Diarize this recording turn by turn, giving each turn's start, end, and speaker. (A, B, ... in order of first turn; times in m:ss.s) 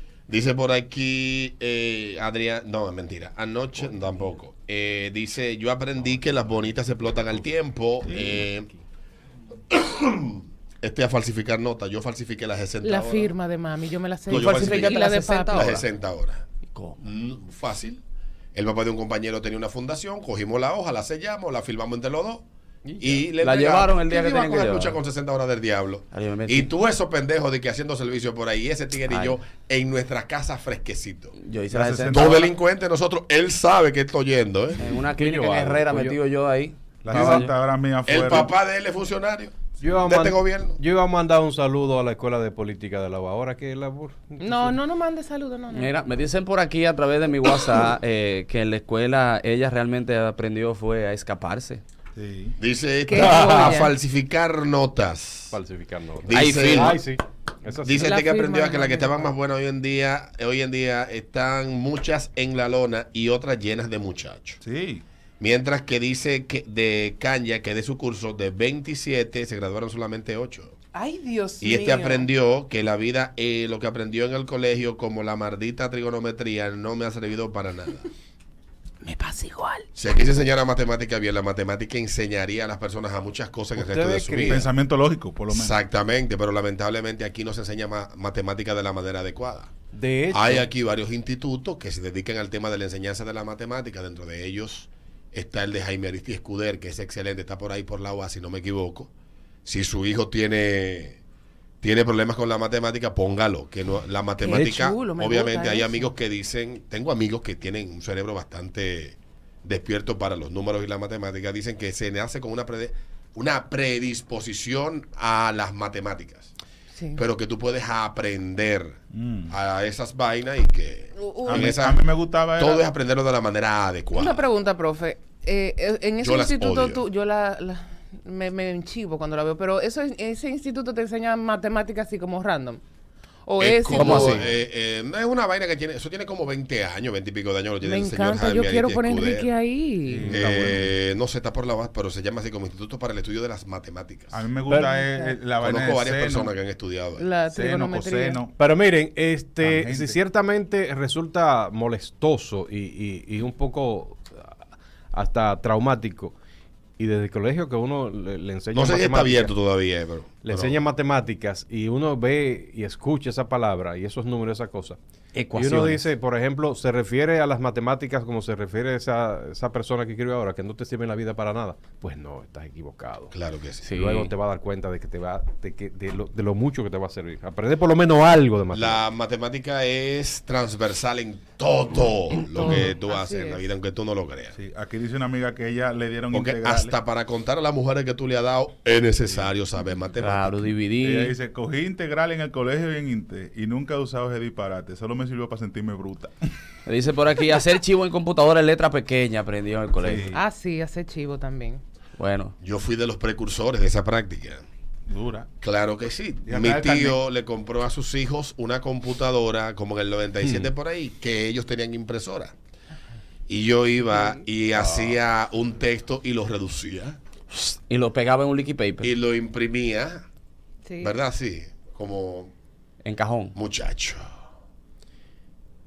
0:00.3-0:08.7 A
0:08.0-0:08.8 B
0:09.7-0:13.3 A
0:12.8-0:15.7 C
0:14.3-0:15.0 A
0:14.3-0:15.8 D
0:15.5-0:16.4 A
0:16.7-0:17.0 D
0:17.0-0:18.0 A
0:18.5-0:22.4 A
0:22.9-0:25.0 D
0:23.0-0:31.3 A
0:26.1-0:26.7 D
0:29.1-0:29.4 D
0:31.4-0:32.5 D
0:31.7-0:32.5 E
0:32.1-0:34.8 A
0:34.8-0:37.5 D
0:35.1-0:36.2 B
0:37.0-0:38.5 E
0:37.1-0:37.4 B
0:38.0-0:40.8 A
0:39.8-0:44.8 B
0:44.4-0:45.9 C
0:45.7-0:51.8 D
0:52.1-0:52.5 E
0:52.6-0:55.5 A
0:53.1-0:53.9 C
0:55.5-0:58.1 B
0:56.2-0:57.0 A
0:56.3-0:57.0 D
0:57.8-1:04.6 A
0:57.9-0:59.3 C
1:04.6-1:05.0 E
1:05.4-1:10.7 A
1:10.9-1:12.3 C
1:11.6-1:18.0 A
1:19.0-1:19.8 C
1:19.9-1:24.7 A
1:23.8-1:24.7 B
1:24.5-1:25.8 E
1:25.5-1:29.7 A
1:29.9-1:30.7 B
1:30.3-1:39.1 A
1:39.6-1:41.2 A
1:41.8-1:56.5 A
1:44.4-1:46.1 C
1:56.9-1:57.2 C
1:57.2-1:59.0 A
1:59.1-1:59.5 E
1:59.5-2:02.0 A
2:01.2-2:01.8 C
2:01.4-2:02.8 E
2:02.6-2:04.4 A
2:04.1-2:12.8 C
2:06.2-2:07.0 A
2:13.4-2:14.4 C
2:13.6-2:19.5 A
2:13.9-2:14.4 D
2:17.8-2:20.3 C
2:20.1-2:20.9 E
2:20.2-2:20.8 B
2:20.3-2:24.4 A
2:24.3-2:26.5 E
2:24.7-2:24.9 B
2:24.7-2:25.3 C
2:25.6-2:27.3 A
2:27.2-2:28.4 C
2:27.5-2:28.5 E
2:28.6-2:34.6 B
2:29.6-2:30.2 E
2:35.1-2:36.3 B
2:37.0-2:39.5 B
2:38.7-2:40.8 A
2:40.4-2:45.0 B
2:45.4-2:46.0 D
2:45.5-2:53.3 B
2:53.3-2:53.9 A
2:53.8-2:54.3 D
2:53.9-2:59.0 B
2:58.7-3:04.5 A
3:02.4-3:03.6 C
3:04.5-3:06.9 E
3:06.3-3:10.7 A
3:10.2-3:11.3 D
3:11.0-3:16.3 E
3:16.8-3:20.3 D
3:20.0-3:20.3 E
3:20.3-3:21.8 C
3:22.2-3:22.5 D
3:22.6-3:24.6 A
3:25.1-3:25.5 E
3:25.6-3:32.5 A
3:26.4-3:27.2 E
3:33.5-3:37.2 A
3:34.0-3:34.4 C
3:37.5-3:39.1 D
3:39.0-3:40.2 A
3:40.8-3:41.2 C
3:41.0-3:42.5 A
3:43.0-3:43.5 D
3:43.5-3:44.3 A